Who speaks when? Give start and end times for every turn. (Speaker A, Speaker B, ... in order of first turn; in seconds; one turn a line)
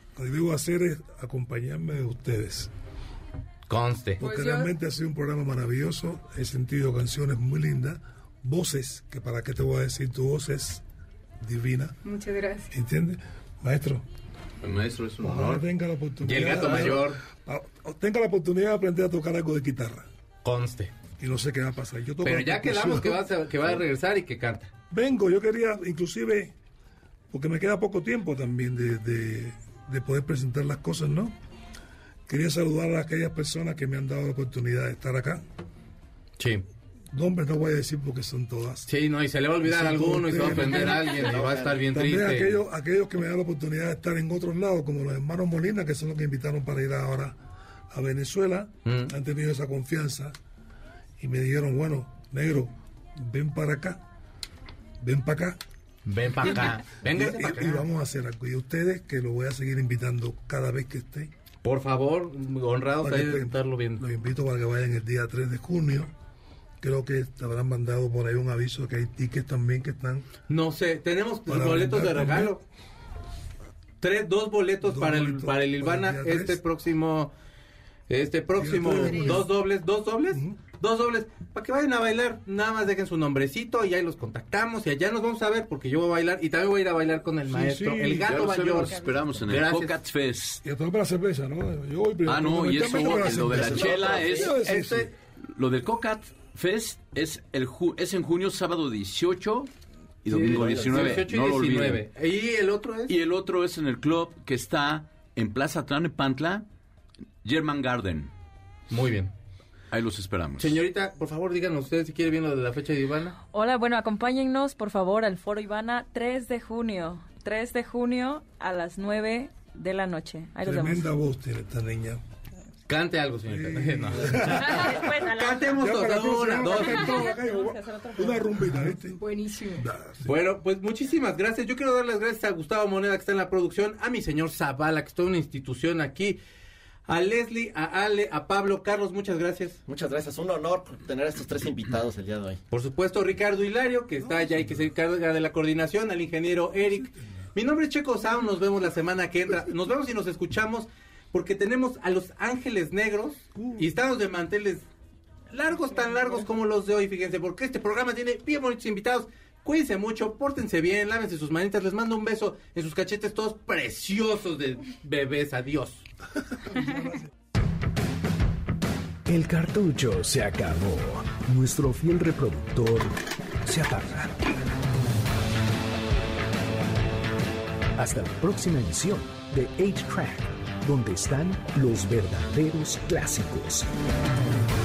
Speaker A: 0.1-2.7
Speaker B: 3.7-4.2
Speaker A: 4.2-10.8
Speaker C: 4.2-4.7
Speaker A: 11.4-12.0
Speaker C: 12.0-12.7
Speaker A: 12.7-14.0
Speaker D: 14.6-15.7
Speaker A: 15.2-20.1
Speaker B: 16.2-17.2
Speaker B: 20.4-20.9
Speaker A: 21.2-23.8
Speaker B: 22.2-24.7
Speaker A: 24.9-26.6
Speaker A: 27.3-31.4
Speaker A: 32.3-35.4
Speaker B: 36.4-36.7
Speaker A: 37.1-38.9
Speaker B: 38.9-42.6
Speaker A: 39.6-41.1
Speaker E: 40.6-41.9
Speaker A: 41.9-47.4
Speaker A: 47.9-50.4
Speaker B: 48.9-49.1
Speaker A: 51.2-54.0
Speaker A: 55.0-55.6
Speaker B: 56.1-57.9
Speaker A: 57.0-61.3
Speaker B: 61.6-64.0
Speaker A: 63.0-66.1
Speaker A: 66.8-70.3
Speaker B: 70.5-72.6
Speaker A: 71.5-72.6
Speaker B: 74.0-77.3
Speaker A: 74.8-76.6
Speaker B: 78.1-90.0
Speaker A: 78.6-79.5
Speaker A: 80.3-80.6
Speaker A: 87.5-88.4
Speaker D: 88.3-90.6
Speaker A: 90.6-95.1
Speaker D: 92.2-94.5
Speaker E: 92.8-94.5
Speaker B: 94.5-95.1
Speaker D: 95.5-99.7
Speaker D: 100.2-102.0
Speaker B: 100.3-103.1
Speaker E: 100.5-101.1
Speaker D: 103.1-106.7
Speaker D: 107.4-108.3
Speaker B: 108.9-109.3
Speaker D: 109.9-110.8
Speaker B: 110.6-113.4
Speaker F: 113.5-121.1
Speaker A: 120.6-122.2
Speaker B: 122.9-127.3
Speaker A: 123.5-129.2
Speaker F: 124.9-125.3
Speaker C: 129.1-129.9
Speaker A: 129.8-130.3
Speaker B: 130.2-136.4
Speaker B: 137.1-139.8
Speaker E: 139.9-142.6
Speaker B: 142.7-154.8
Speaker A: 144.3-144.6
Speaker A: 146.9-147.5
Speaker A: 153.6-153.9
Speaker B: 155.5-166.1
Speaker A: 166.5-167.3
Speaker G: 169.2-174.6
Speaker G: 178.0-183.9